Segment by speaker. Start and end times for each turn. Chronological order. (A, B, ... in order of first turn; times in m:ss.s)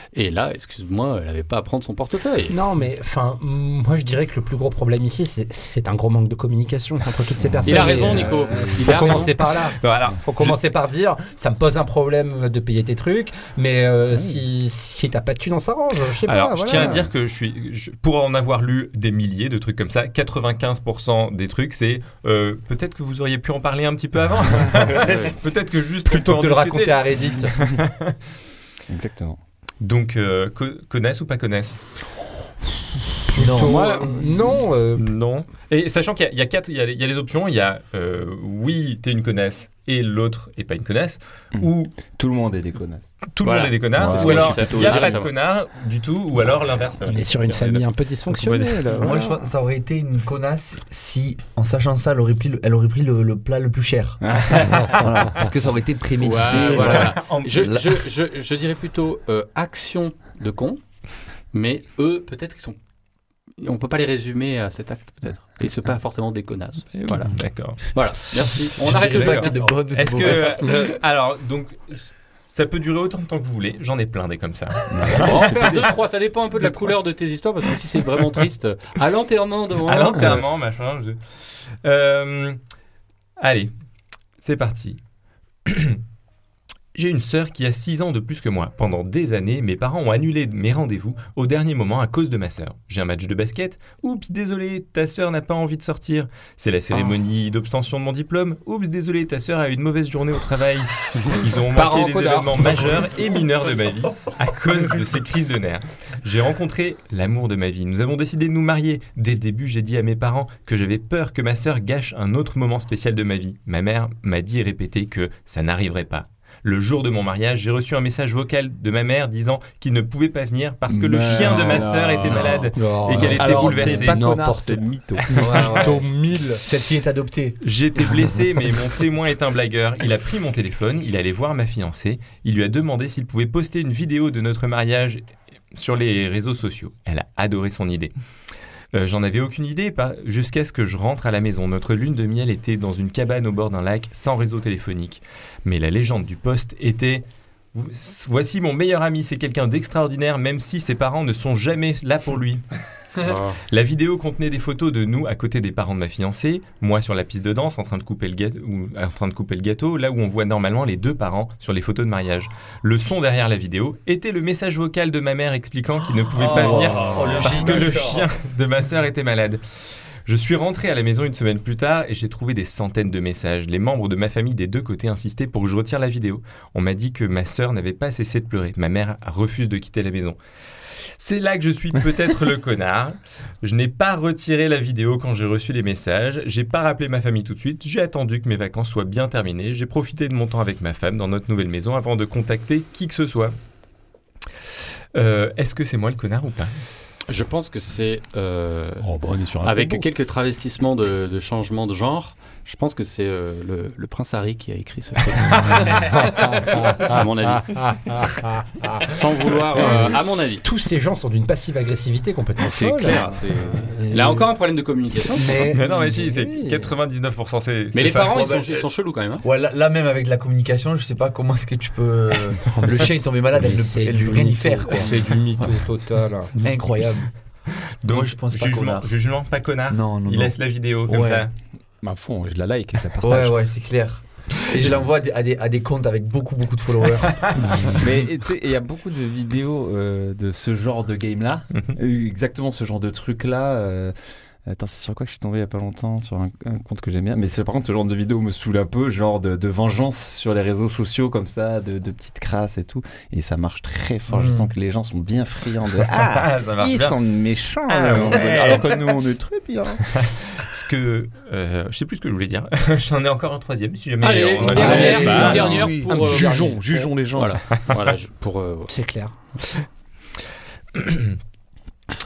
0:00.1-0:02.5 A
0:02.5-0:17.0 B
0:07.4-0:09.0 C
0:07.6-0:09.4 A
0:08.9-0:10.6 D
0:16.2-0:28.2 D
0:16.8-0:17.0 C
0:25.0-0:25.3 C
0:26.0-0:27.5 B
0:28.9-0:29.4 C
0:29.8-0:31.8 D
0:33.3-0:35.1 B
0:33.4-0:34.1 E
0:35.0-0:42.0 D
0:41.6-0:43.1 C
0:43.4-0:47.8 D
0:43.4-0:45.3 A
0:43.9-0:45.2 C
0:47.1-0:48.9 B
0:48.9-0:57.7 E
0:54.2-0:55.4 C
0:56.2-1:00.8 A
0:56.5-0:57.8 D
1:01.5-1:02.8 A
1:03.6-1:09.8 A
1:06.9-1:08.5 D
1:08.8-1:10.9 E
1:09.0-1:15.9 D
1:14.9-1:15.8 C
1:15.1-1:20.4 A
1:19.8-1:21.2 D
1:21.8-1:22.6 D
1:23.4-1:23.7 D
1:24.4-1:25.0 D
1:25.6-1:26.0 D
1:26.9-2:04.3 D
1:41.8-1:42.7 C
2:00.9-2:05.9 C
2:02.7-2:06.6 B
2:05.3-2:06.0 E
2:05.4-2:05.9 D
2:06.6-2:07.6 E
2:07.6-2:15.2 D
2:15.7-2:18.1 D
2:18.9-2:32.6 D
2:33.2-2:33.6 A
2:33.7-2:49.6 D
2:46.4-2:48.3 E
2:46.5-2:47.8 C
2:50.2-3:00.4 D
3:01.2-3:13.5 D
3:15.1-3:16.7 D
3:17.3-3:19.1 A
3:19.0-3:20.0 C
3:19.6-3:27.8 A
3:26.3-3:26.6 B
3:28.1-3:29.0 B
3:29.0-3:30.6 A
3:29.8-3:30.1 B
3:30.6-3:33.3 B
3:32.6-3:35.6 A
3:34.0-3:34.4 B
3:35.3-3:36.8 B
3:35.6-3:38.8 D
3:37.9-3:39.4 A
3:39.4-3:45.4 E
3:43.5-3:46.5 B
3:46.6-3:47.3 E
3:48.0-3:51.5 D
3:48.0-3:49.1 E
3:49.9-3:51.4 E
3:52.0-3:53.6 C
3:53.2-3:58.0 E
3:57.7-4:04.1 C
4:04.6-4:20.0 C
4:14.3-4:14.6 E
4:16.1-4:17.2 D
4:17.9-4:19.0 D
4:20.1-4:26.0 D
4:24.2-4:26.8 A
4:24.6-4:26.9 B
4:24.7-4:27.6 C
4:27.3-4:28.9 A
4:28.9-4:29.3 B
4:30.9-4:31.4 D